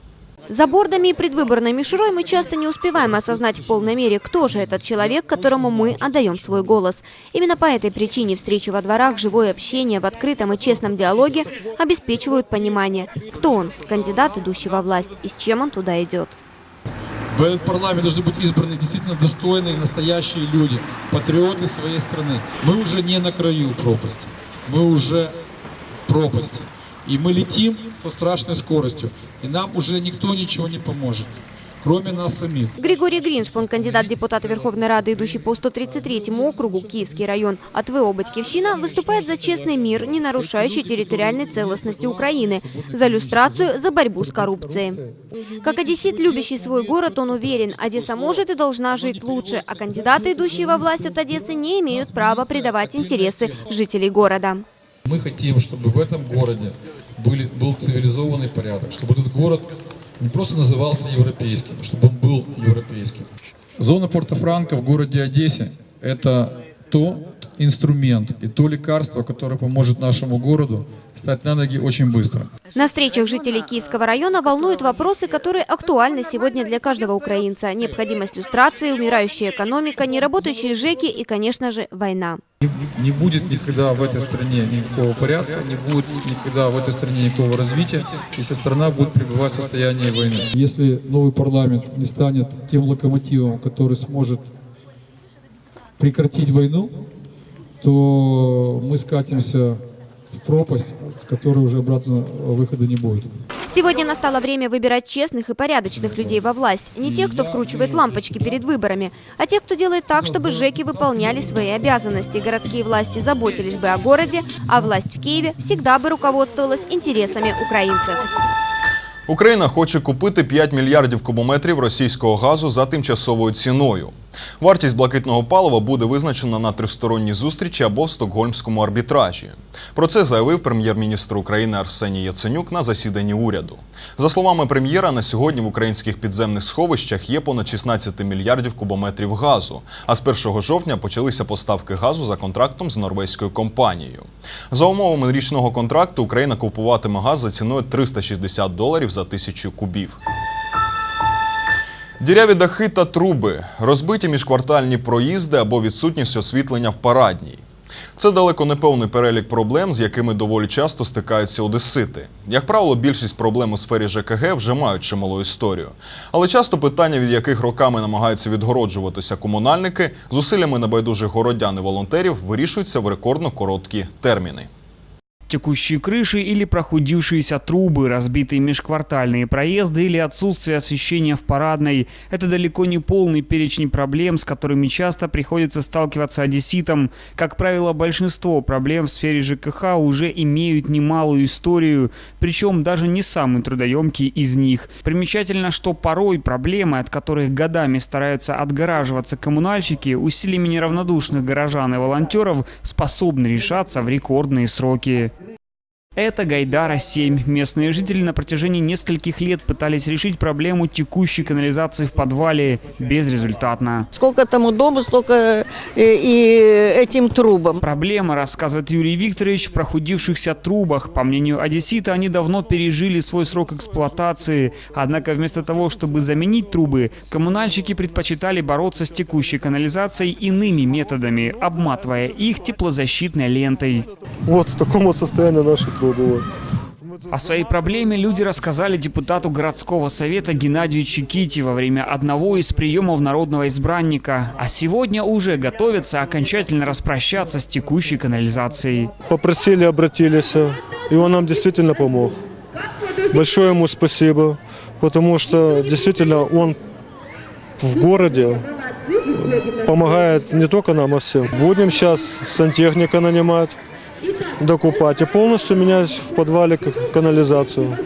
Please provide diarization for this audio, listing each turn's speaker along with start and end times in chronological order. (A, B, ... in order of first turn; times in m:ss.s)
0:00.5-0:16.4 A
0:17.3-0:25.3 B
0:26.1-0:32.8 B
0:32.8-0:45.0 A
0:39.0-0:39.4 B
0:40.0-0:50.9 B
0:45.6-0:54.6 A
0:51.9-0:53.7 B
0:55.0-1:03.3 B
1:03.8-1:12.5 B
1:12.8-1:22.4 A
1:22.6-1:34.5 B
1:36.0-1:36.9 B
1:37.8-1:39.8 B
1:40.3-1:43.3 B
1:43.7-1:58.2 A
1:47.0-1:48.6 B
1:50.3-1:51.0 B
1:59.3-2:30.2 C
2:32.2-2:37.6 C
2:38.2-2:54.7 C
2:55.5-3:25.3 D
3:26.2-3:34.1 D
3:34.1-3:37.8 E
3:37.8-3:54.1 D
3:54.5-3:56.4 F
3:57.3-4:09.1 D
4:09.3-4:12.4 F
4:13.3-4:16.8 F
4:17.8-4:18.6 F
4:19.3-4:23.8 F
4:24.6-4:28.0 F